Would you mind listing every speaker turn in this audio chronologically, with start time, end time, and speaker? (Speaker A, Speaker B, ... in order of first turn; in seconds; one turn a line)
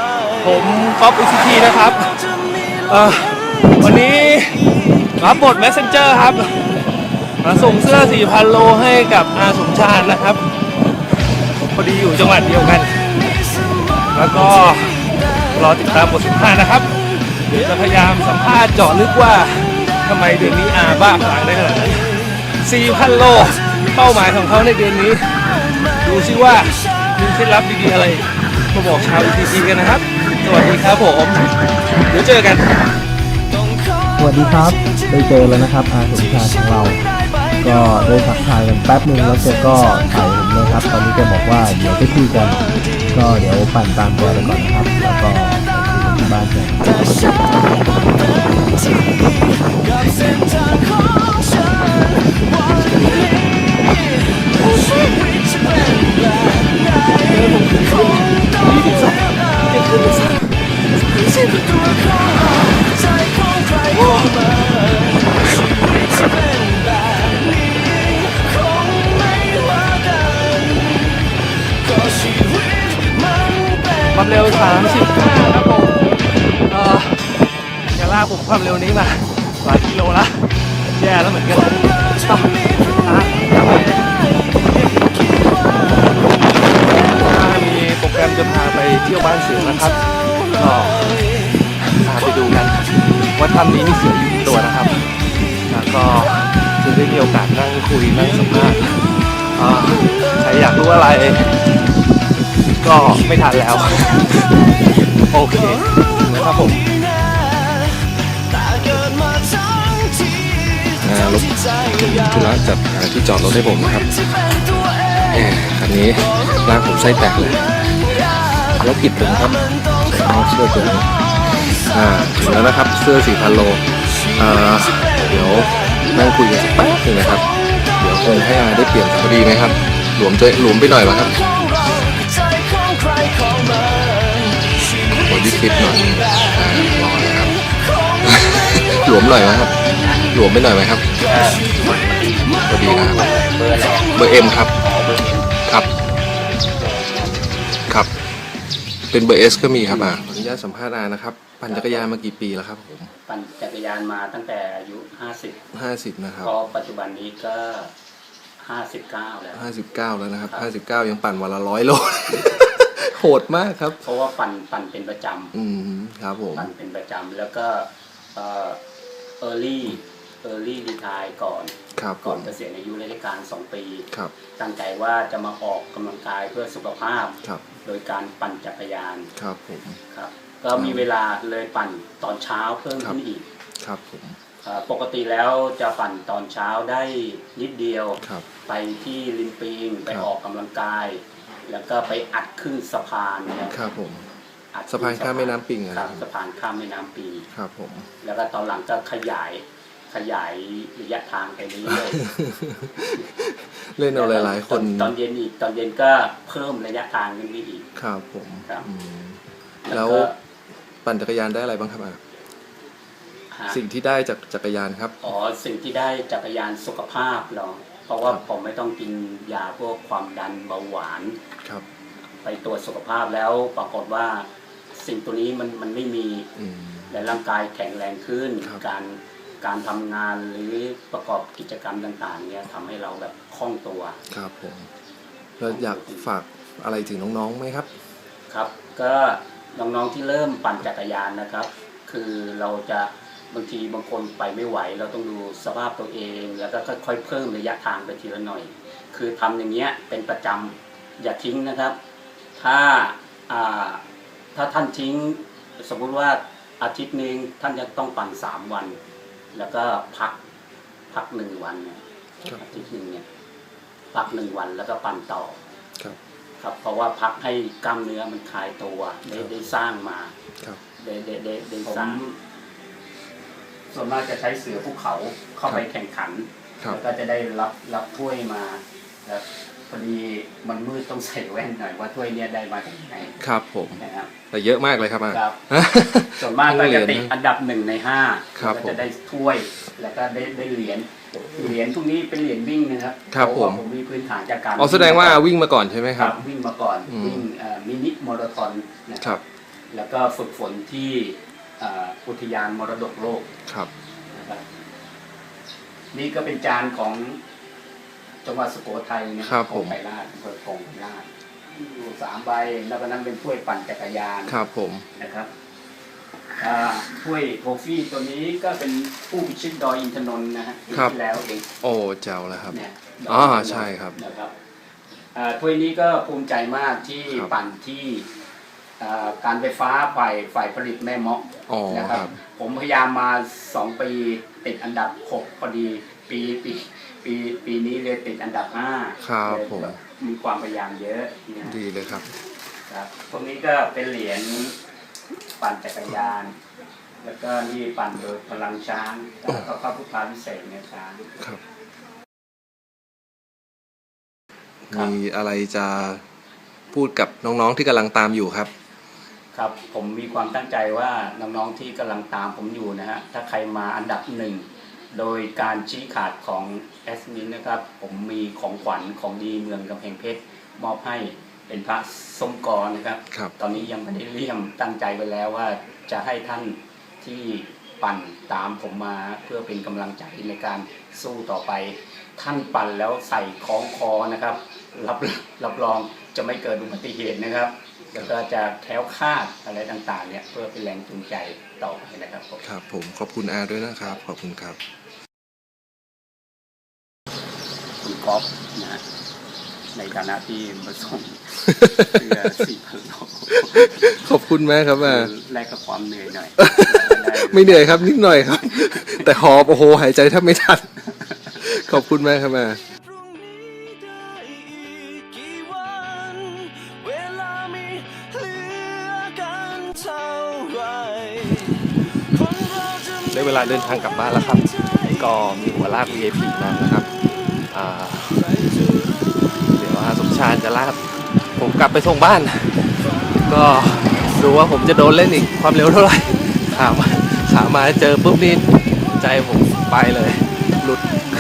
Speaker A: 0.4-6.7
Speaker A: 7.4-10.4
Speaker A: 11.7-13.2
Speaker A: 14.1-31.4
Speaker A: 32.1-32.7
Speaker B: 34.2-37.1
Speaker B: 37.6-47.4
Speaker A: 57.2-60.5
Speaker A: 61.3-61.7
Speaker A: 63.9-64.5
Speaker A: 74.1-76.0
Speaker A: 76.7-77.2
Speaker A: 77.9-84.1
Speaker A: 84.7-85.1
Speaker A: 86.8-91.2
Speaker A: 91.8-95.1
Speaker A: 95.7-101.6
Speaker A: 102.8-104.5
Speaker A: 105.3-106.9
Speaker C: 111.0-114.2
Speaker C: 115.3-121.2
Speaker C: 121.8-131.5
Speaker C: 135.1-137.6
Speaker C: 138.2-141.1
Speaker D: 141.2-145.5
Speaker C: 142.7-143.2
Speaker C: 144.2-144.7
Speaker D: 146.7-147.6
Speaker C: 149.1-153.1
Speaker D: 151.7-152.1
Speaker D: 153.3-155.6
Speaker C: 155.7-156.5
Speaker D: 156.4-157.9
Speaker D: 158.6-159.6
Speaker C: 159.5-164.0
Speaker D: 164.0-165.5
Speaker C: 165.5-166.7
Speaker D: 166.6-168.8
Speaker D: 169.4-179.3
Speaker C: 172.0-172.5
Speaker C: 179.4-180.0
Speaker D: 180.1-183.4
Speaker C: 180.7-181.1
Speaker C: 183.8-184.4
Speaker D: 184.6-193.8
Speaker C: 193.7-194.3
Speaker D: 194.7-197.5
Speaker C: 194.9-196.2
Speaker C: 197.5-198.1
Speaker D: 198.2-202.2
Speaker C: 201.9-205.1
Speaker D: 204.1-207.9
Speaker C: 208.0-210.3
Speaker D: 209.9-210.4
Speaker C: 211.0-212.2
Speaker D: 213.5-213.8
Speaker C: 213.7-215.2
Speaker D: 215.2-221.4
Speaker D: 222.4-226.5
Speaker C: 226.6-227.1
Speaker D: 227.1-234.2
Speaker C: 234.3-234.9
Speaker C: 235.6-237.9
Speaker D: 235.7-236.2
Speaker D: 238.5-252.0
Speaker D: 252.6-254.0
Speaker D: 254.5-259.0
Speaker D: 259.5-260.4
Speaker D: 261.1-262.0
Speaker D: 262.6-263.3
Speaker D: 264.1-265.6
Speaker D: 266.6-270.3
Speaker D: 271.0-272.4
Speaker D: 273.9-283.4
Speaker C: 283.4-287.3
Speaker D: 284.0-284.3
Speaker D: 285.3-285.6
Speaker D: 286.4-295.4
Speaker C: 288.6-289.0
Speaker C: 293.3-293.8
Speaker C: 294.8-296.4
Speaker D: 296.2-299.3
Speaker C: 297.1-297.4
Speaker D: 299.9-303.5
Speaker D: 304.3-304.6
Speaker D: 306.1-307.4
Speaker D: 308.4-314.6
Speaker C: 309.4-310.0
Speaker C: 314.5-315.1
Speaker D: 315.2-315.5
Speaker D: 316.6-321.7
Speaker C: 321.8-324.2
Speaker D: 322.7-324.5
Speaker D: 325.3-328.3
Speaker D: 329.0-341.8
Speaker C: 331.7-332.4
Speaker C: 339.2-340.0
Speaker C: 341.6-342.3
Speaker D: 342.9-344.8
Speaker D: 345.6-346.5
Speaker D: 347.2-351.3
Speaker C: 354.9-356.2
Speaker C: 356.9-358.7
Speaker D: 359.5-392.6
Speaker C: 392.6-394.8
Speaker D: 398.0-399.0
Speaker D: 399.9-404.1
Speaker C: 401.7-402.6
Speaker C: 403.7-405.3
Speaker D: 405.0-408.1
Speaker C: 406.6-410.9
Speaker D: 408.8-409.2
Speaker C: 411.6-412.8
Speaker C: 423.3-424.6
Speaker A: 423.3-424.6
Speaker A: 425.2-426.9
Speaker C: 425.2-427.0
Speaker A: 427.7-428.5
Speaker C: 427.8-428.1
Speaker A: 429.8-431.0
Speaker C: 429.8-430.9
Speaker A: 431.6-432.5
Speaker A: 433.5-441.0
Speaker C: 434.5-437.2
Speaker C: 438.0-438.5